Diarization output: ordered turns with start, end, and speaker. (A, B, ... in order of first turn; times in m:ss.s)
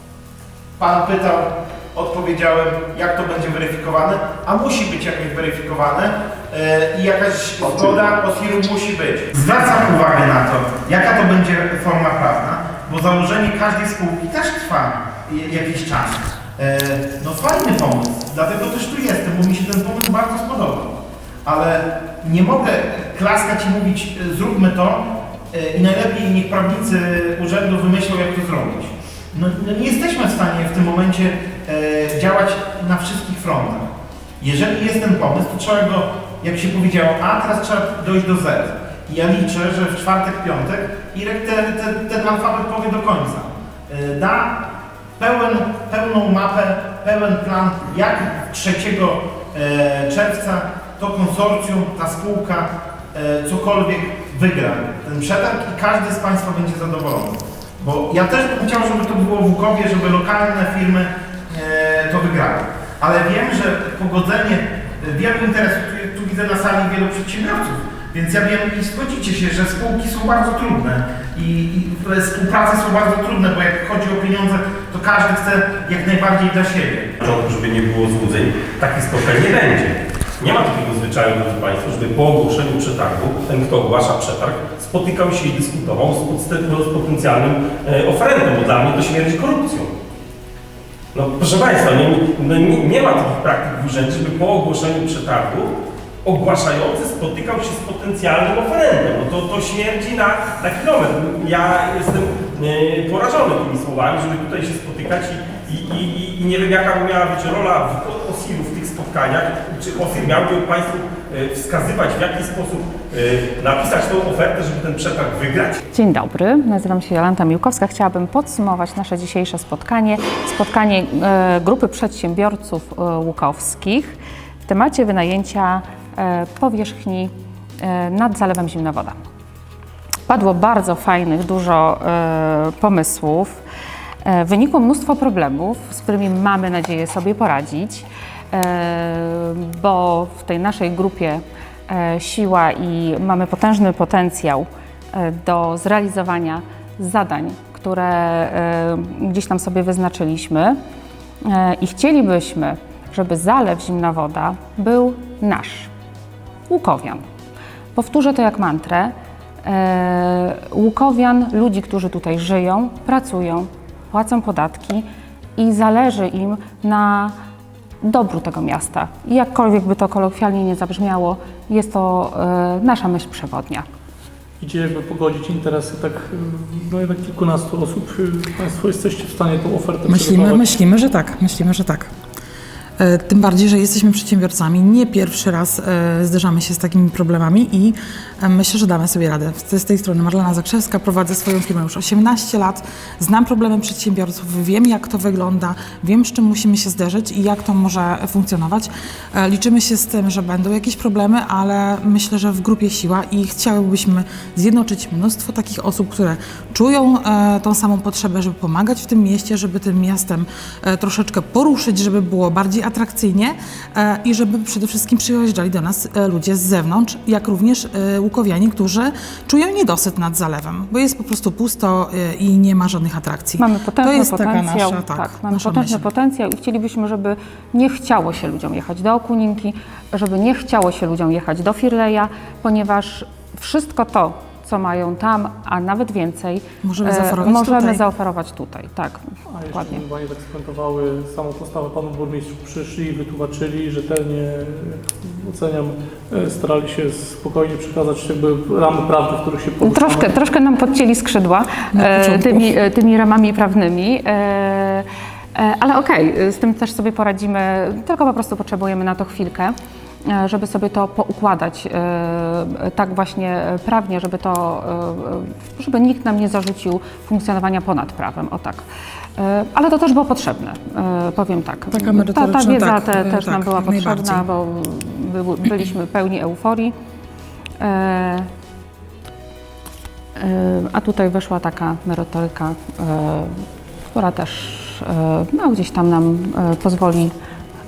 0:00.8-0:33.9 A
0:34.4-0:44.6 A
0:45.2-1:17.1 A
1:17.2-1:29.9 B
1:31.1-1:55.8 B
1:55.9-2:09.2 C
2:10.3-2:13.6 C
2:14.2-2:30.8 C
2:31.4-2:35.9 C
2:36.7-2:37.2 C
2:37.9-2:39.1 C
2:39.6-2:45.0 C
2:45.6-2:47.3 C
2:48.0-2:53.8 C
2:54.6-3:00.6 D
3:00.0-3:02.1 E
3:03.0-3:46.1 E
3:43.6-4:00.0 C
3:56.8-3:58.0 E
3:59.5-4:10.4 D
4:09.8-4:19.7 C
4:11.9-4:12.7 E
4:20.2-4:28.8 C
4:29.4-4:36.9 C
4:31.9-4:34.4 E
4:37.8-4:38.5 C
4:40.4-4:47.3 C